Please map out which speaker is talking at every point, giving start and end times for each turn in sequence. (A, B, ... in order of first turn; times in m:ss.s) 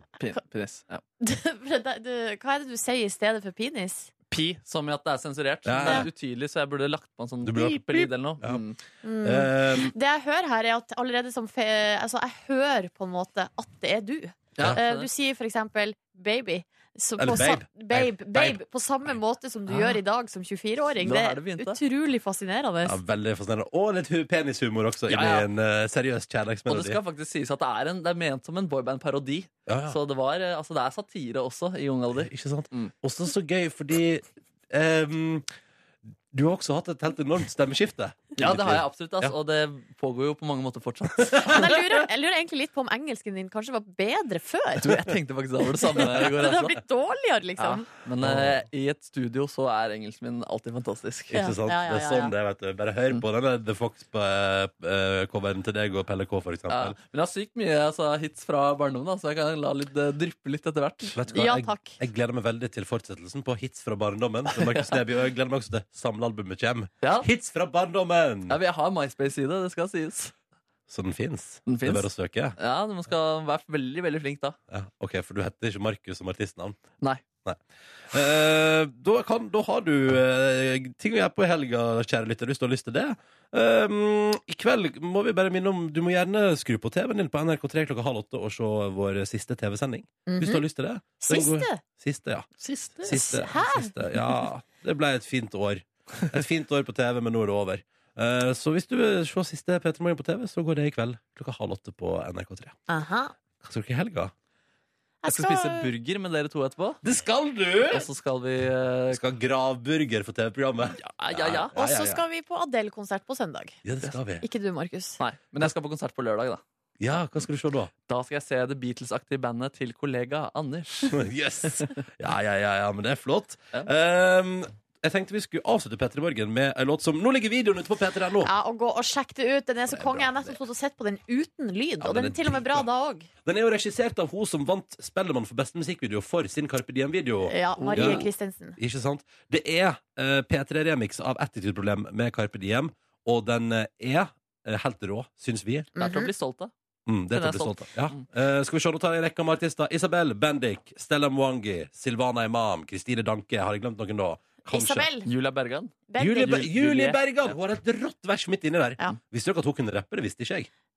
0:00.2-0:01.0 A
0:01.2-0:04.1 B
0:04.3-0:08.8 A
0:05.6-0:06.1 C
0:07.4-0:08.6 C
0:09.0-0:23.0 B
0:09.2-0:09.9 C
0:14.6-0:15.1 A
0:17.2-0:18.6 C
0:19.7-0:20.0 A
0:21.0-0:21.8 A
0:22.8-0:27.0 C
0:25.1-0:25.5 A
0:26.7-0:32.9 A
0:29.7-0:30.0 C
0:32.2-0:35.5 C
0:36.3-0:39.3 C
0:38.4-0:41.9 A
0:41.4-0:44.9 B
0:44.8-0:46.8 A
0:46.1-0:47.9 B
0:47.6-0:51.4 A
0:48.2-0:48.6 C
0:51.3-0:52.4 B
0:51.3-0:57.0 C
0:56.7-1:01.2 A
1:01.1-1:08.6 C
1:01.3-1:02.0 B
1:04.5-1:05.0 A
1:07.0-1:07.3 A
1:08.5-1:10.3 A
1:10.9-1:12.6 C
1:11.7-1:14.6 A
1:14.7-1:16.8 C
1:17.4-1:42.8 C
1:30.3-1:30.6 B
1:31.2-1:31.8 B
1:32.6-1:33.1 A
1:33.0-1:33.9 B
1:42.9-1:43.3 B
1:43.6-1:44.3 C
1:45.2-1:45.9 B
1:45.3-1:47.0 A
1:47.0-1:48.1 C
1:47.9-1:49.2 A
1:49.1-1:52.2 C
1:51.0-1:51.8 A
1:51.8-1:53.8 B
1:53.8-1:54.4 C
1:54.4-1:55.2 B
1:55.2-1:56.6 A
1:57.0-1:57.9 C
1:58.1-2:01.2 A
2:01.1-2:08.5 C
2:08.4-2:13.3 B
2:09.9-2:10.6 C
2:12.0-2:12.9 C
2:13.4-2:25.9 C
2:17.5-2:18.8 B
2:17.8-2:18.2 A
2:26.0-2:26.3 B
2:26.0-2:26.7 A
2:27.1-2:35.1 C
2:27.3-2:28.2 A
2:34.6-2:35.3 B
2:35.3-2:37.2 A
2:36.1-2:36.7 B
2:36.2-2:40.7 C